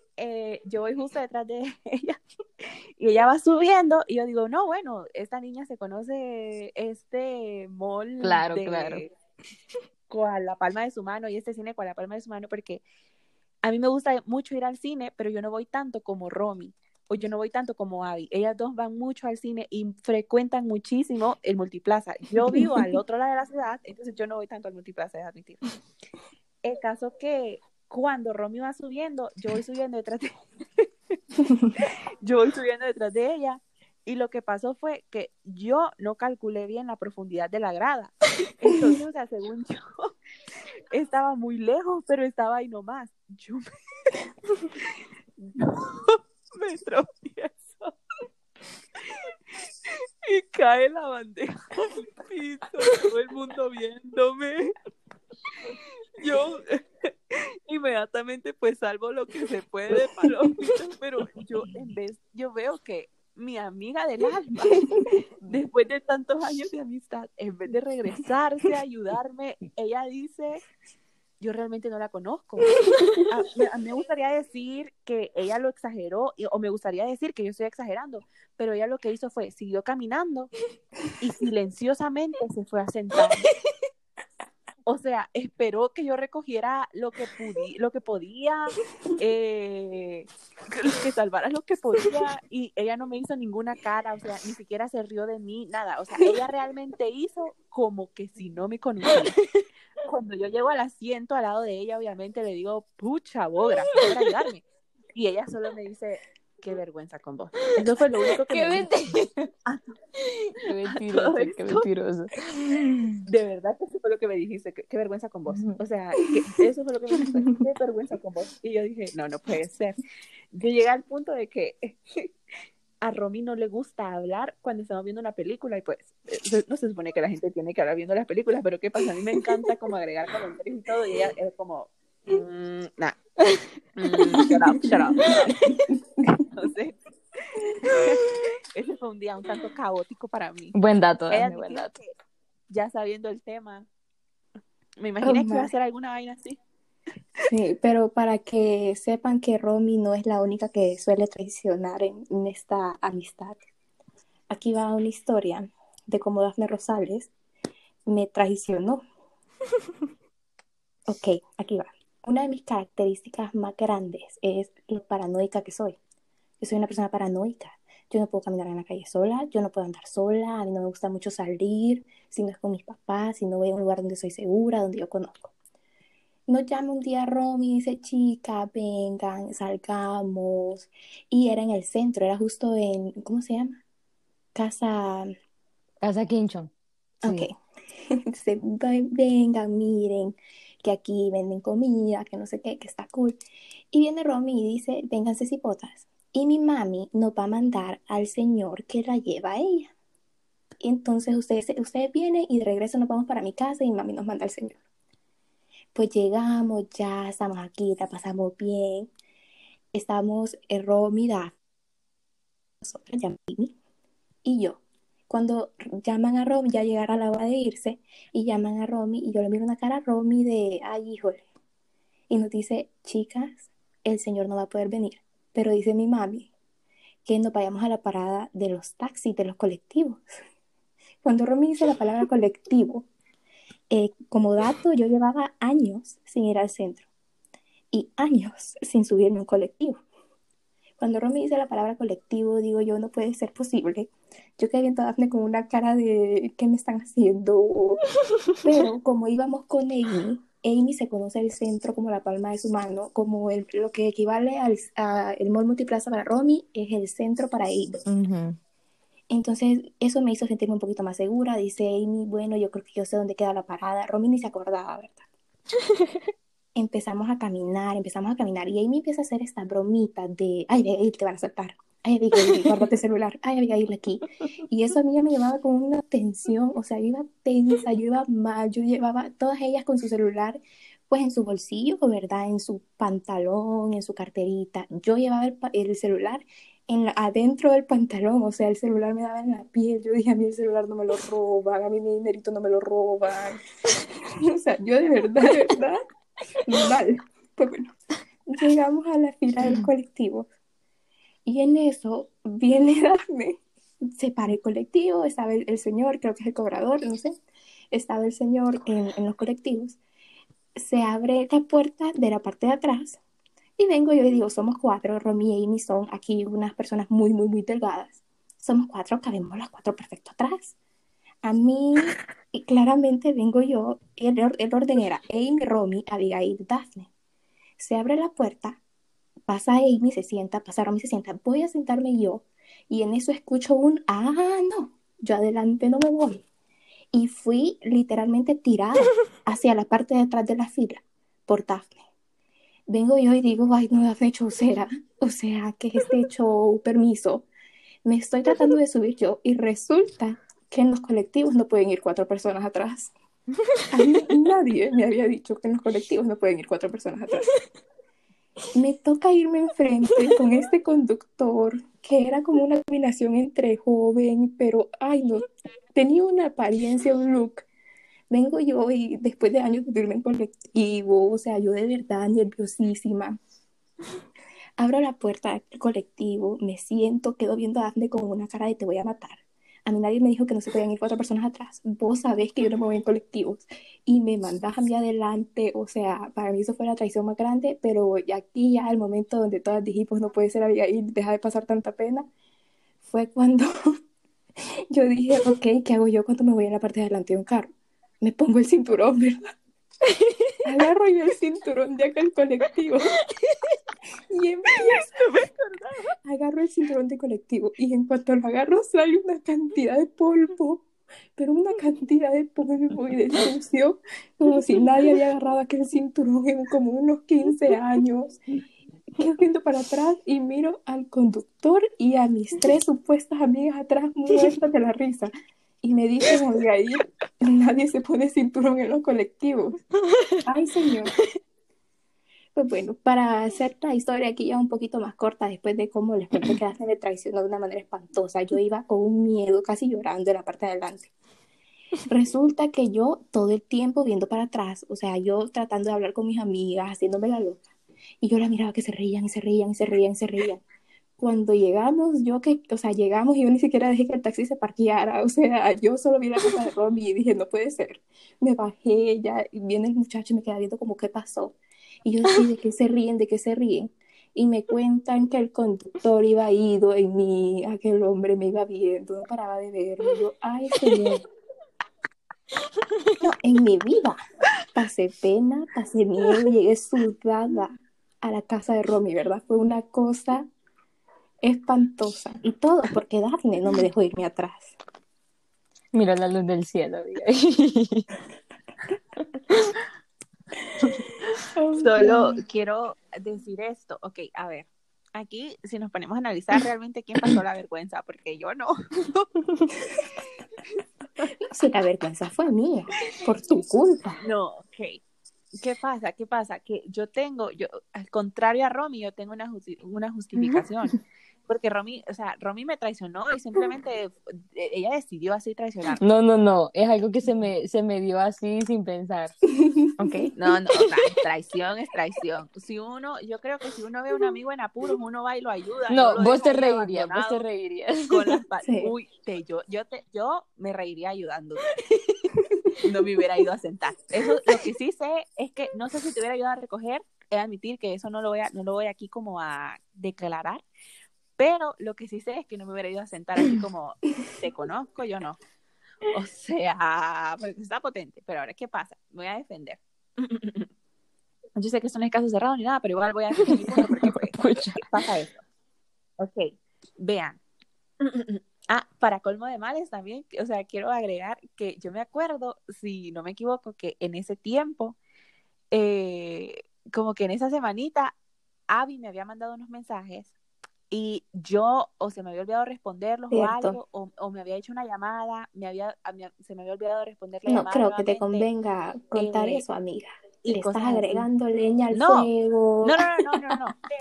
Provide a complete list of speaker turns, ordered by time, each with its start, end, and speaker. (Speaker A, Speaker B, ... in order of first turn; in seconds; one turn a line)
Speaker A: 0.2-9.1
Speaker B: 8.2-9.0
Speaker A: 10.1-12.8
Speaker A: 13.6-25.6
Speaker A: 26.6-30.9
Speaker A: 31.8-40.1
Speaker A: 40.9-44.1
Speaker A: 45.4-48.0
Speaker A: 49.0-49.3
Speaker A: 49.9-54.7
Speaker A: 56.2-64.9
Speaker A: 65.5-70.6
Speaker A: 71.4-80.5
Speaker B: 72.9-73.2
Speaker A: 81.2-83.5
Speaker A: 84.8-99.4
Speaker B: 99.2-99.6
Speaker A: 100.0-108.9
Speaker B: 108.3-109.5
Speaker A: 109.6-109.9
Speaker B: 110.2-112.8
Speaker A: 110.9-111.9
Speaker A: 113.2-120.0
Speaker B: 115.5-115.8
Speaker A: 120.5-122.3
Speaker A: 123.0-133.2
Speaker A: 133.9-135.8
Speaker B: 134.2-134.6
Speaker A: 136.5-136.9
Speaker A: 137.9-138.2
Speaker A: 138.7-140.8
Speaker B: 140.7-141.9
Speaker A: 141.3-142.1
Speaker A: 142.7-143.9
Speaker A: 145.0-146.6
Speaker C: 145.2-145.7
Speaker C: 147.4-153.6
Speaker C: 154.5-157.3
Speaker C: 158.1-159.0
Speaker C: 161.1-166.0
Speaker C: 166.6-175.5
Speaker C: 176.5-183.8
Speaker C: 184.5-185.3
Speaker B: 186.0-186.7
Speaker C: 187.2-187.5
Speaker B: 187.2-187.5
Speaker C: 188.1-193.4
Speaker C: 193.9-199.9
Speaker C: 200.8-204.8
Speaker C: 205.9-209.1
Speaker C: 209.9-211.5
Speaker C: 212.8-213.7
Speaker C: 214.4-221.4
Speaker C: 222.3-226.5
Speaker C: 227.2-230.3
Speaker C: 231.2-233.1
Speaker C: 233.9-237.1
Speaker C: 237.9-240.0
Speaker C: 241.0-248.0
Speaker C: 248.6-258.0
Speaker B: 258.1-258.6
Speaker C: 259.3-265.2
Speaker B: 265.8-266.2
Speaker C: 266.7-293.6
Speaker B: 272.4-272.7
Speaker C: 294.4-296.0
Speaker C: 296.6-297.9
Speaker C: 298.5-300.5
Speaker C: 301.4-307.4
Speaker C: 307.9-310.0
Speaker C: 310.8-313.2
Speaker C: 313.8-320.7
Speaker C: 321.4-327.1
Speaker C: 327.8-328.8
Speaker C: 329.5-336.4
Speaker C: 337.1-342.0
Speaker C: 342.9-347.5
Speaker C: 348.0-353.1
Speaker C: 353.9-357.5
Speaker C: 358.7-367.6
Speaker C: 368.3-373.4
Speaker C: 374.8-392.3
Speaker C: 393.0-393.7
Speaker C: 394.9-399.5
Speaker B: 400.1-400.5
Speaker C: 400.6-403.1
Speaker B: 403.5-403.8
Speaker C: 404.3-405.2
Speaker A: 405.0-406.1
Speaker C: 406.2-418.4
Speaker C: 419.2-425.3
Speaker C: 425.8-429.8
Speaker B: 430.1-430.4
Speaker C: 430.4-431.1
Speaker C: 432.5-441.1
Speaker C: 442.1-447.6
Speaker C: 448.2-450.6
Speaker C: 451.2-471.2
Speaker B: 472.9-473.1
Speaker C: 473.3-474.2
Speaker C: 474.7-480.5
Speaker C: 481.4-484.8
Speaker B: 485.9-488.1
Speaker B: 489.5-489.8
Speaker C: 491.5-492.4
Speaker A: 491.8-499.2
Speaker C: 501.5-504.2
Speaker A: 504.2-505.0
Speaker A: 505.6-510.9
Speaker A: 511.5-516.0
Speaker B: 516.0-519.3
Speaker C: 519.5-520.3
Speaker B: 520.0-520.9
Speaker A: 520.4-527.4
Speaker B: 525.9-528.4
Speaker A: 528.1-531.6
Speaker C: 528.6-528.9
Speaker B: 531.9-532.1
Speaker A: 532.8-540.6
Speaker A: 541.4-545.4
Speaker A: 546.1-550.7
Speaker A: 551.5-555.4
Speaker B: 553.4-555.0
Speaker A: 556.2-557.4
Speaker A: 558.0-565.0
Speaker A: 565.7-568.1
Speaker A: 568.7-570.3
Speaker A: 570.9-578.5
Speaker C: 573.3-573.8
Speaker C: 577.5-583.4
Speaker A: 579.1-579.6
Speaker A: 580.4-581.3
Speaker A: 581.9-582.3
Speaker A: 582.8-583.8